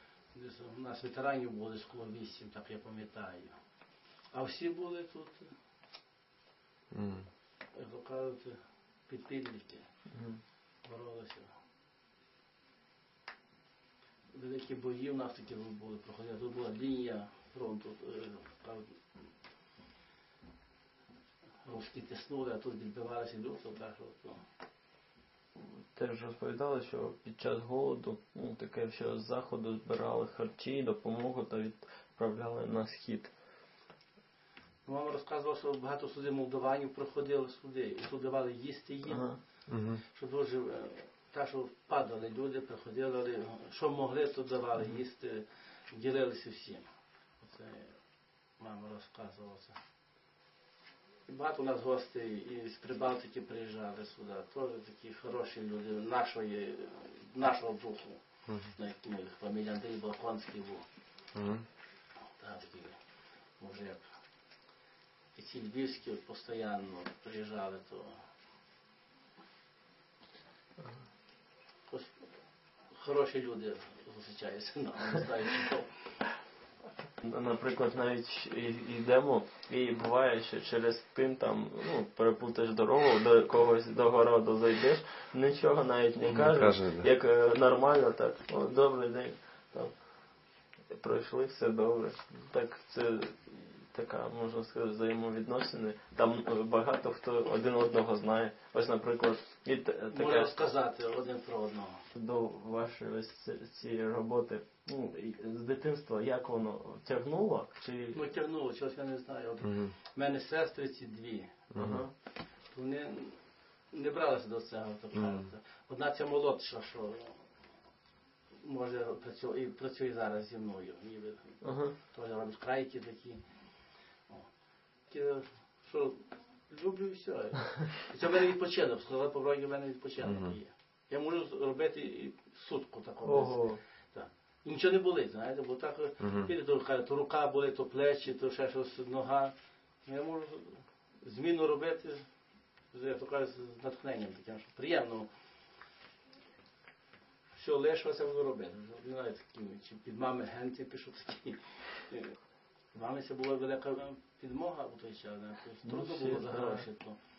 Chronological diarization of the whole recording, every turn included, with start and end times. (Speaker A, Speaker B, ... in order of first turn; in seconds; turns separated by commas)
Speaker A: 0.3-3.5, Speaker A: 4.3-5.5, Speaker B: 6.9-7.3, Speaker A: 7.7-9.9, Speaker C: 10.1-10.4, Speaker A: 10.8-11.5, Speaker A: 14.3-19.0, Speaker A: 21.6-24.4, Speaker C: 25.6-33.3, Speaker A: 34.9-39.3, Speaker C: 39.1-39.4, Speaker B: 39.7-40.0, Speaker A: 40.1-46.9, Speaker A: 47.4-48.0, Speaker A: 48.6-49.8, Speaker A: 51.3-58.2, Speaker B: 58.5-58.7, Speaker A: 58.7-60.8, Speaker B: 61.3-61.7, Speaker A: 62.4-63.0, Speaker A: 63.6-64.0, Speaker A: 65.3-68.2, Speaker A: 71.9-72.2, Speaker A: 72.9-75.9, Speaker C: 77.2-90.0, Speaker B: 86.2-87.1, Speaker C: 90.9-100.6, Speaker A: 100.1-102.0, Speaker C: 102.2-108.2, Speaker A: 108.1-111.7, Speaker B: 109.6-109.9, Speaker B: 111.7-112.0, Speaker C: 111.8-112.1, Speaker A: 112.7-113.4, Speaker A: 113.9-117.4, Speaker B: 115.1-115.5, Speaker A: 118.6-123.4, Speaker C: 121.6-122.0, Speaker A: 125.1-139.5, Speaker B: 130.2-130.6, Speaker C: 133.2-133.8, Speaker B: 136.2-136.5, Speaker A: 140.1-142.2, Speaker A: 142.9-145.3, Speaker A: 147.6-152.3, Speaker A: 152.9-157.2, Speaker C: 155.8-156.9